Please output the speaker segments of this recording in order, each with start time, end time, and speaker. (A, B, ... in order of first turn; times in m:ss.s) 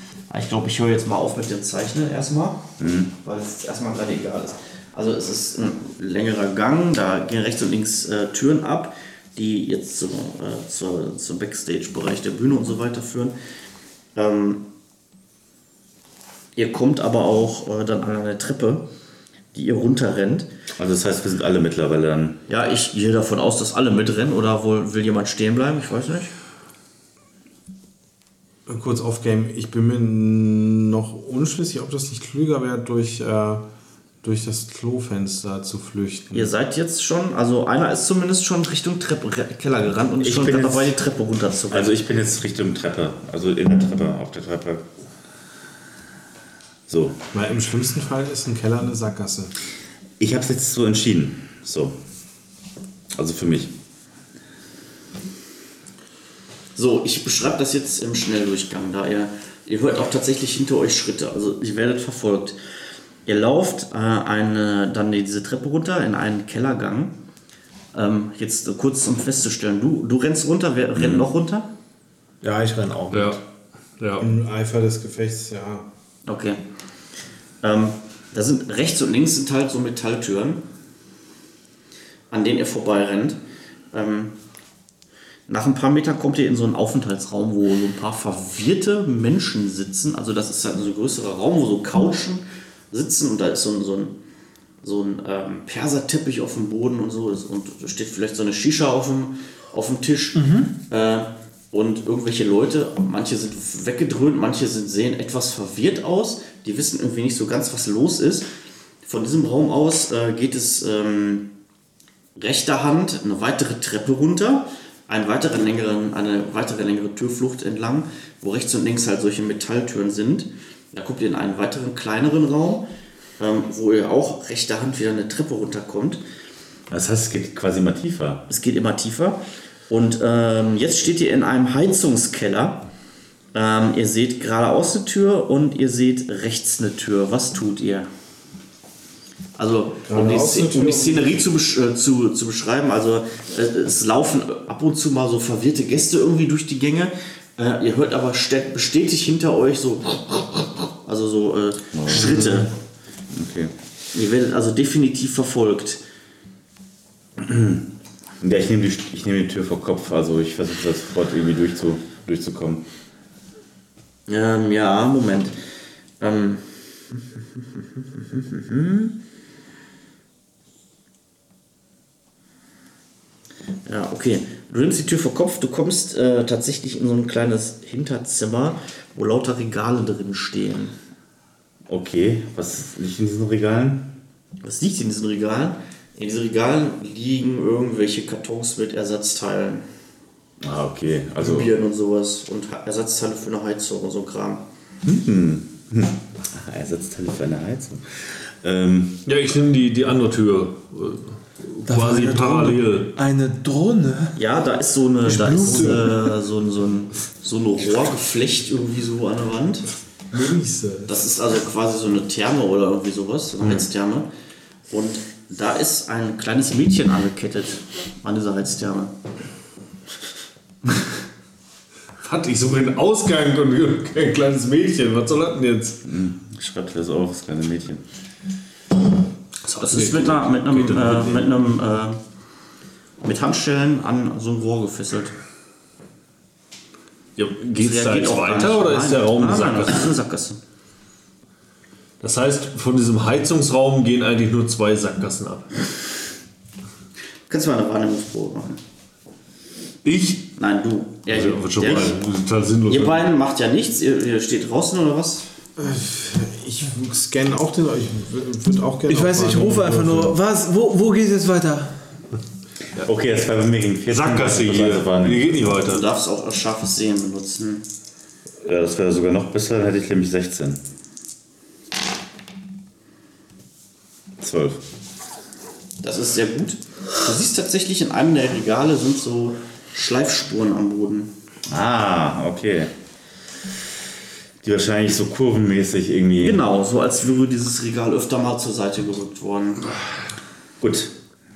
0:00.3-0:13.3 A
0:02.8-0:03.1 B
0:14.1-0:14.7 A
0:16.6-0:18.9 A
0:19.5-0:20.5 A
0:20.8-0:22.4 B
0:22.5-0:26.3 A
0:28.6-0:33.6 C
0:34.2-0:36.5 C
0:36.3-0:42.0 A
0:40.2-0:40.9 B
0:41.7-0:44.8 B
0:46.9-0:47.2 B
0:47.3-0:49.5 C
0:50.2-0:52.0 B
0:53.1-0:53.7 B
0:56.8-1:02.6 A
1:03.2-1:07.1 A
1:07.9-1:11.7 A
1:11.0-1:11.2 B
1:12.4-1:13.4 D
1:13.1-1:13.4 E
1:14.0-1:14.3 E
1:14.2-1:15.9 C
1:16.2-1:16.6 A
1:17.6-1:20.6 A
1:22.3-1:23.4 A
1:23.9-1:24.4 A
1:25.5-1:34.2 A
1:34.8-1:48.5 A
1:40.3-1:40.7 D
1:49.0-1:51.5 A
1:52.4-2:02.9 A
2:03.4-2:06.2 A
2:06.9-2:08.4 B
2:08.5-2:12.9 A
2:13.5-2:18.1 A
2:19.6-2:32.7 A
2:20.1-2:21.4 C
2:31.9-2:32.6 B
2:33.3-2:33.7 B
2:34.1-2:36.0 A
2:37.4-2:37.9 B
2:38.4-2:42.8 B
2:44.3-2:45.5 A
2:46.2-2:47.2 A
2:48.2-2:49.1 A
2:53.8-3:00.9 A
3:01.9-3:04.1 B
3:04.6-3:09.8 A
3:10.6-3:11.7 B
3:11.4-3:14.6 A
3:15.0-3:19.2 B
3:19.2-3:23.2 E
3:21.8-3:24.4 D
3:24.4-3:29.9 A
3:25.2-3:26.3 D
3:30.3-3:31.1 C
3:31.1-3:34.3 A
3:34.9-3:39.1 A
3:42.2-3:46.0 E
3:46.0-3:48.0 B
3:49.6-3:51.5 E
3:49.8-3:52.2 A
3:53.2-3:55.3 A
3:57.4-4:00.1 E
3:57.8-4:00.6 A
4:02.2-4:05.8 E
4:07.5-4:08.8 A
4:10.0-4:10.5 E
4:10.6-4:12.1 A
4:11.3-4:13.2 E
4:12.9-4:15.4 A
4:15.8-4:20.4 C
4:19.1-4:22.0 D
4:23.0-4:25.6 B
4:24.1-4:26.1 E
4:25.8-4:27.8 A
4:28.6-4:30.8 B
4:34.4-4:34.8 B
4:36.0-4:41.3 A
4:41.7-4:42.9 B
4:44.6-4:46.6 B
4:46.4-4:50.0 A
4:50.8-4:51.1 B